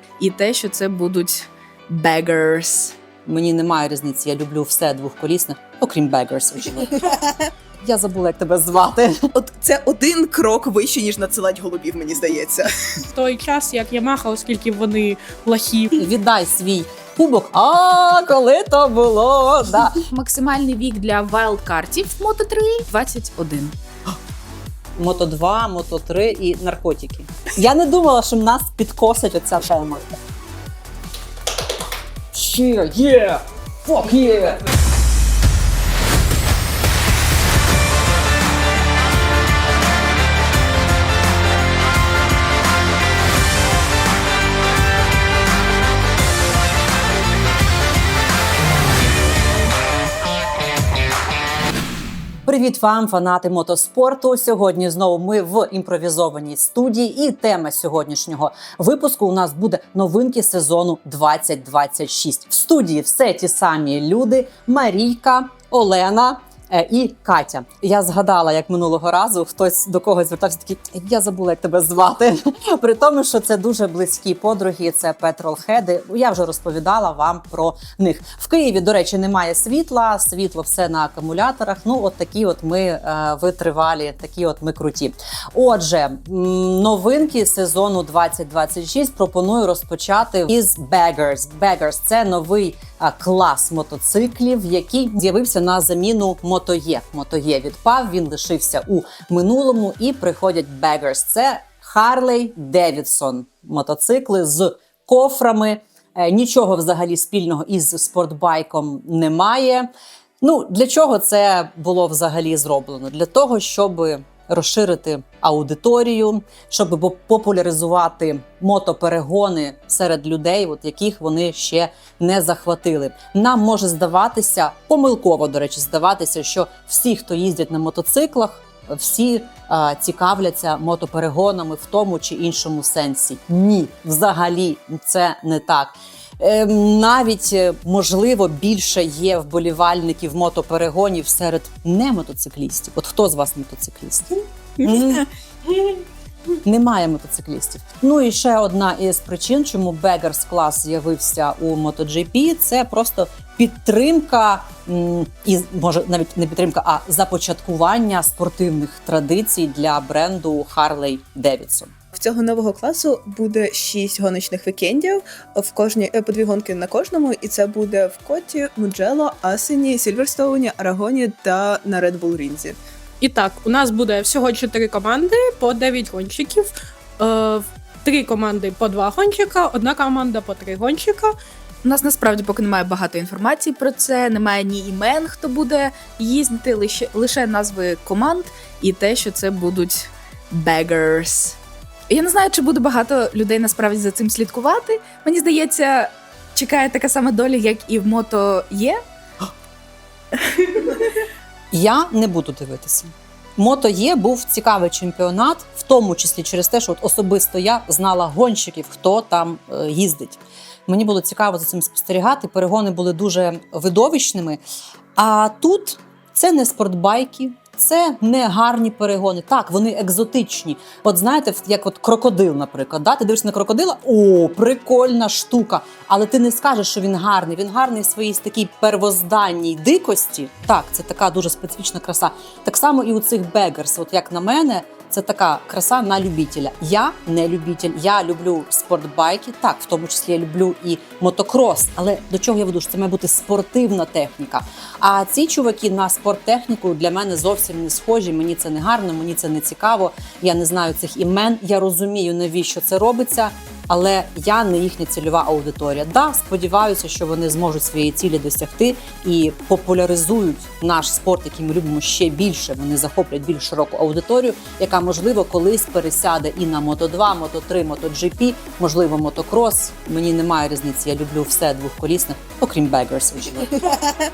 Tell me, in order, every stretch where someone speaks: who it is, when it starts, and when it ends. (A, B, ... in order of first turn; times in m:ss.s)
0:00.2-0:02.9 A
0:03.2-0:07.1 B
0:07.8-0:09.1 B
0:09.4-0:12.7 C
0:13.1-0:15.9 D
0:16.0-0:20.0 B
0:20.1-0:23.7 A
0:25.0-0:30.0 B
0:32.3-0:34.6 B
0:52.4-1:49.9 B
1:50.4-2:25.3 B
2:26.6-2:41.9 B
2:42.1-2:52.8 C
2:53.2-3:01.3 D
3:01.8-3:11.6 A
3:12.1-3:19.0 A
3:20.5-3:21.0 A
3:21.7-3:34.6 B
3:35.2-4:33.8 B